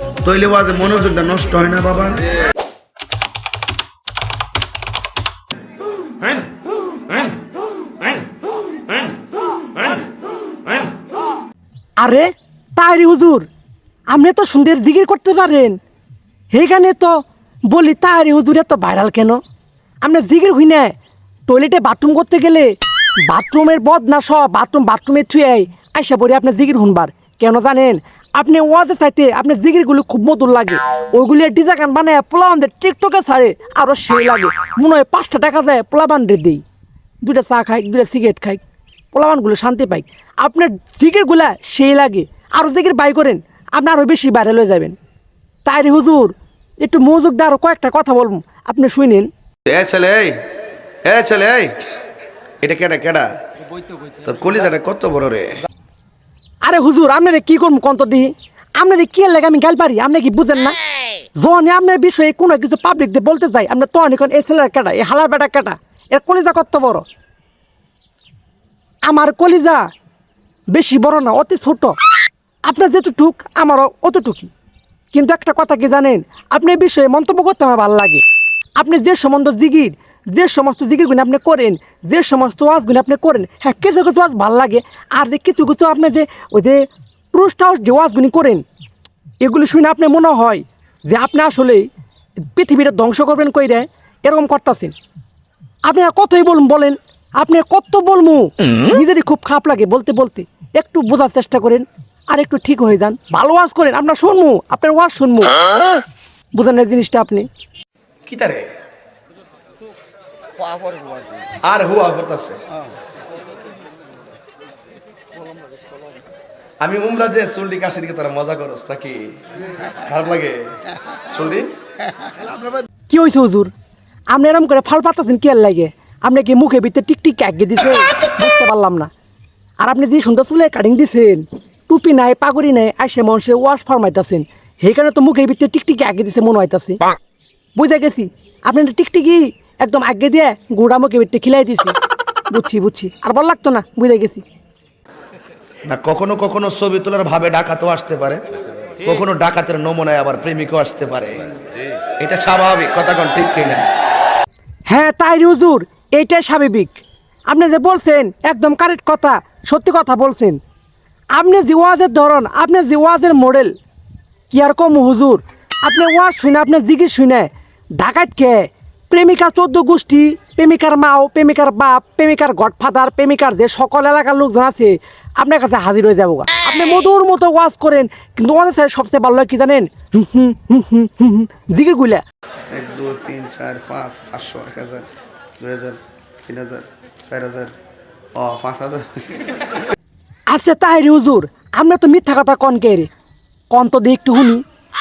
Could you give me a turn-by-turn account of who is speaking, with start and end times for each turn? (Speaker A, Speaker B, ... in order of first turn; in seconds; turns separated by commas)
Speaker A: 0.2-2.2, Speaker B: 12.0-13.5, Speaker B: 14.1-15.8, Speaker B: 16.5-17.2, Speaker B: 17.7-19.4, Speaker B: 20.0-21.0, Speaker B: 21.5-22.7, Speaker B: 23.2-36.6, Speaker B: 37.2-45.0, Speaker B: 45.6-49.3, Speaker A: 49.7-50.3, Speaker A: 51.0-51.7, Speaker A: 52.6-53.3, Speaker A: 54.2-55.5, Speaker B: 56.6-60.8, Speaker B: 61.4-67.0, Speaker B: 69.0-69.9, Speaker B: 70.7-72.0, Speaker B: 72.7-74.5, Speaker B: 75.1-78.2, Speaker B: 78.8-88.6, Speaker B: 89.4-91.9, Speaker B: 92.5-94.9, Speaker B: 95.8-105.6, Speaker B: 106.5-107.5, Speaker A: 108.2-108.7, Speaker A: 111.6-112.6, Speaker A: 116.8-119.2, Speaker A: 120.0-120.6, Speaker A: 121.3-121.7, Speaker B: 123.1-123.7, Speaker B: 124.3-129.1, Speaker B: 129.8-137.0, Speaker B: 137.8-142.0, Speaker B: 142.5-144.4, Speaker A: 145.9-148.4, Speaker A: 149.0-151.5, Speaker A: 152.2-153.8, Speaker B: 154.9-160.6, Speaker B: 161.3-163.8, Speaker B: 164.5-182.2, Speaker A: 182.7-185.1, Speaker A: 185.6-187.7, Speaker A: 188.3-189.1, Speaker B: 190.5-193.1, Speaker B: 193.7-194.6